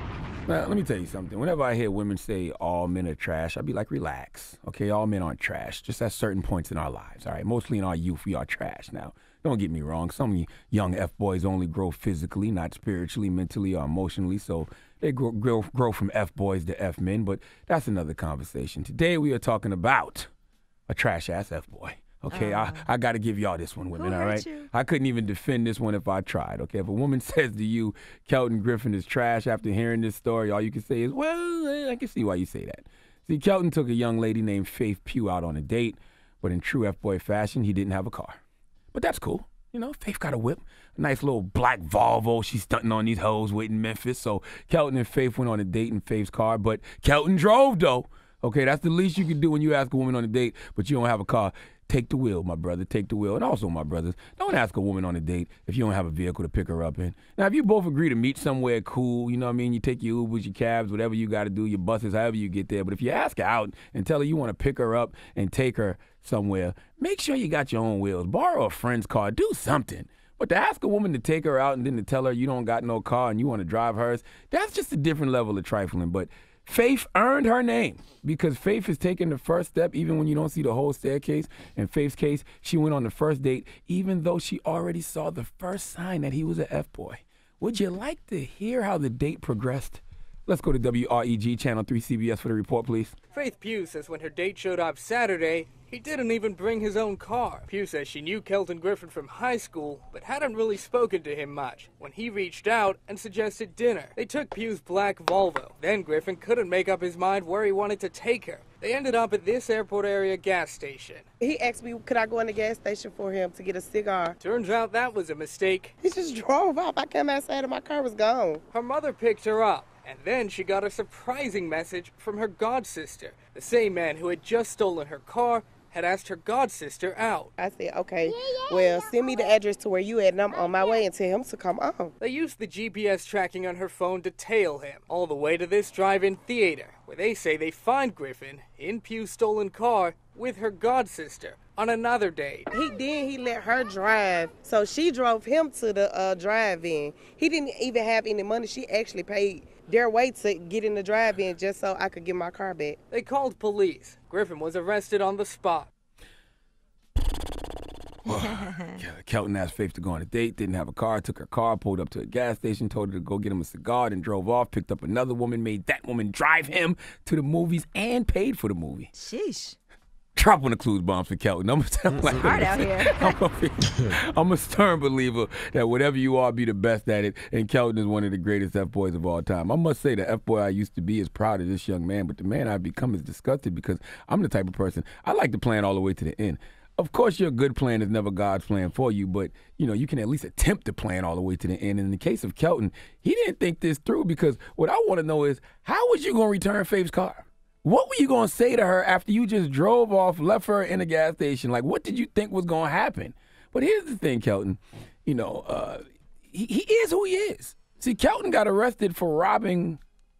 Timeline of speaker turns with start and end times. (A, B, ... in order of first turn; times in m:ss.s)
0:00.5-0:20.3 A
0:20.9-0:38.4 A
0:22.3-0:22.7 B
0:24.0-0:24.6 B
0:38.9-1:33.1 A
1:33.3-1:51.2 C
1:51.4-1:54.4 D
1:54.4-1:55.9 C
1:56.0-1:58.6 D
1:58.7-2:07.5 C
2:07.6-2:12.1 D
2:12.2-2:22.7 C
2:22.7-2:33.0 D
2:33.1-2:35.9 C
2:38.2-2:49.1 A
2:49.2-2:49.8 B
2:50.4-3:30.0 A
2:52.3-2:53.4 B